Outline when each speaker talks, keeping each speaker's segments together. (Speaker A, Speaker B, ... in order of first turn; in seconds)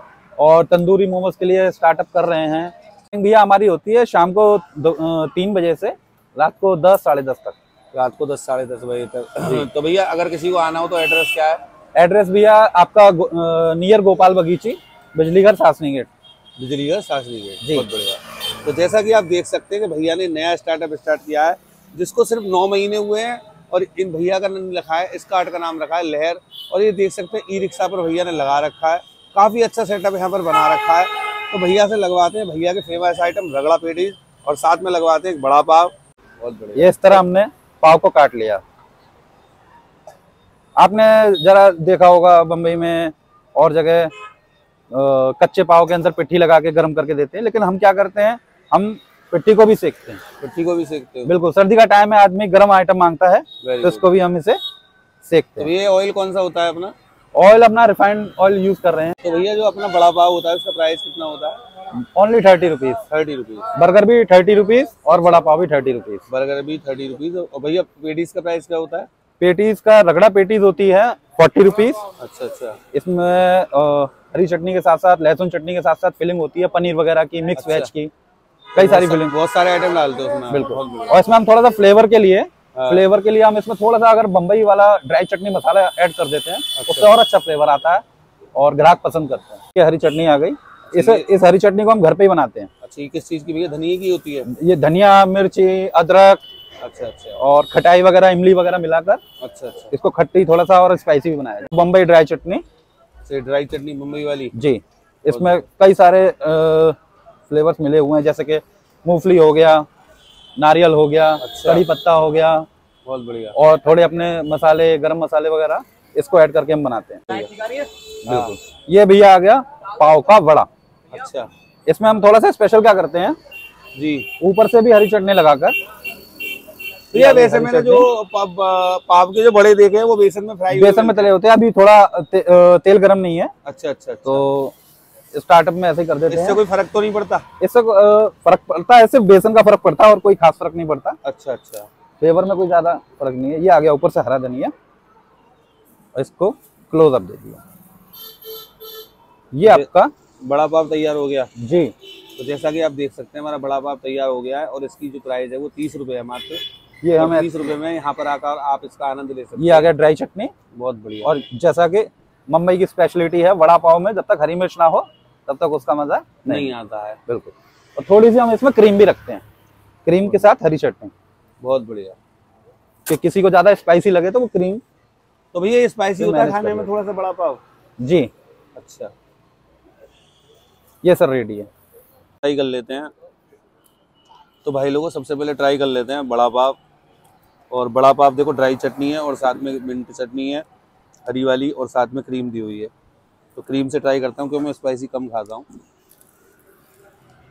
Speaker A: 0.4-7.6, 11.9-16.1, 17.6-17.9, 36.8-38.6, 40.8-44.1, 44.9-50.2, 51.3-54.6, 55.3-55.7, 57.4-59.2, 62.0-63.0, 63.7-66.2, 69.4-72.0, 72.9-78.1, 78.8-79.3, 80.5-88.0, 88.6-92.7, 94.5-96.4, 97.4-99.2, 99.9-102.6, 104.5-107.0, 107.5-109.8, 110.6-112.7, 113.6-120.7, 121.9-123.3, 124.4-125.8, 127.1-128.1, 130.7-133.5, 134.3-134.7, 135.3-136.6, 137.6-141.2, 142.2-144.7, 146.2-147.6, 149.5-150.1, 151.6-151.9, 157.0-157.7, 159.6-160.5, 161.2-166.7, 167.3-169.4, 170.1-171.1, 173.1-174.8, 176.2-176.9, 178.0-178.3, 181.0-181.7
Speaker B: 7.9-11.6, 16.6-37.2, 50.4-51.3, 53.6-54.1, 55.6-56.9, 59.2-61.6, 63.1-63.7, 66.3-69.1, 72.2-72.8, 77.5-77.9, 78.8-81.2, 82.7-83.0, 86.8-87.1, 90.9-91.3, 92.8-94.5, 96.8-97.4, 99.4-99.9, 103.3-104.5, 105.3-105.6, 111.4-111.9, 113.0-113.6, 118.3-118.6, 121.1-121.5, 124.0-124.3, 127.1-131.3, 133.7-134.5, 136.3-137.4, 141.2-141.9, 150.4-151.5, 152.4-156.6, 157.2-159.9, 160.8-161.3, 166.5-167.2, 171.6-172.2, 175.5-177.6, 178.8-179.1, 182.4-183.1, 184.6-186.8, 187.7-190.7, 191.3-192.9, 193.6-195.7